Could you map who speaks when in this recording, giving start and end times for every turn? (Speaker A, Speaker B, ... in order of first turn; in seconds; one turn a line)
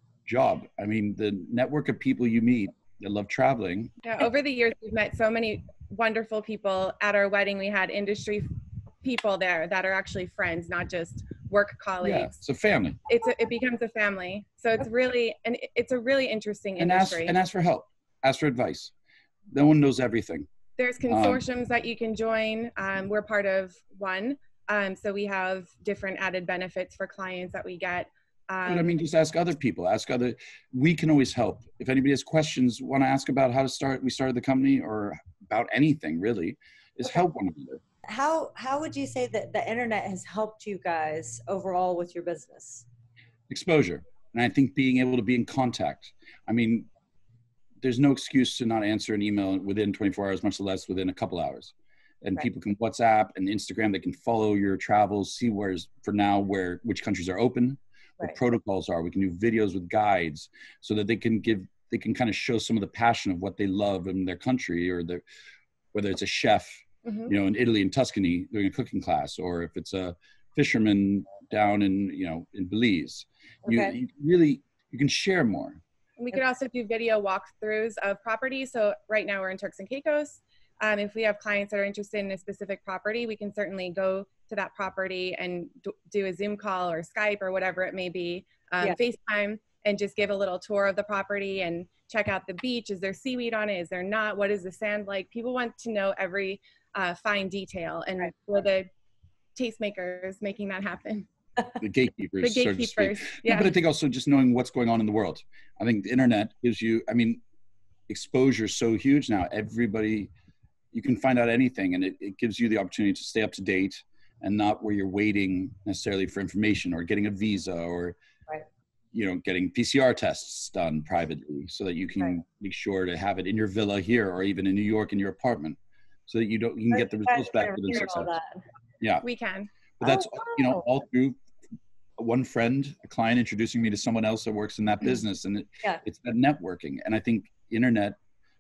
Speaker A: 0.3-3.9
Speaker B: 4.0-12.4
Speaker A: 12.0-13.0
Speaker B: 13.1-17.4
Speaker A: 16.8-18.9
Speaker A: 19.5-20.5
Speaker B: 20.8-29.0
Speaker A: 21.1-21.4
Speaker A: 28.7-37.8
Speaker C: 38.1-42.9
Speaker A: 43.5-46.9
Speaker A: 47.8-65.2
Speaker A: 65.9-75.8
Speaker B: 67.0-67.3
Speaker C: 73.7-74.0
Speaker B: 76.2-98.9
Speaker B: 99.5-101.3
Speaker A: 101.8-107.4
Speaker B: 102.4-103.7
Speaker A: 108.1-110.3
Speaker A: 110.9-118.2
Speaker A: 119.1-128.3
Speaker C: 126.9-128.7
Speaker A: 129.0-129.3
Speaker B: 129.2-129.7
Speaker A: 130.0-131.4
Speaker C: 130.0-130.8
Speaker A: 132.2-138.2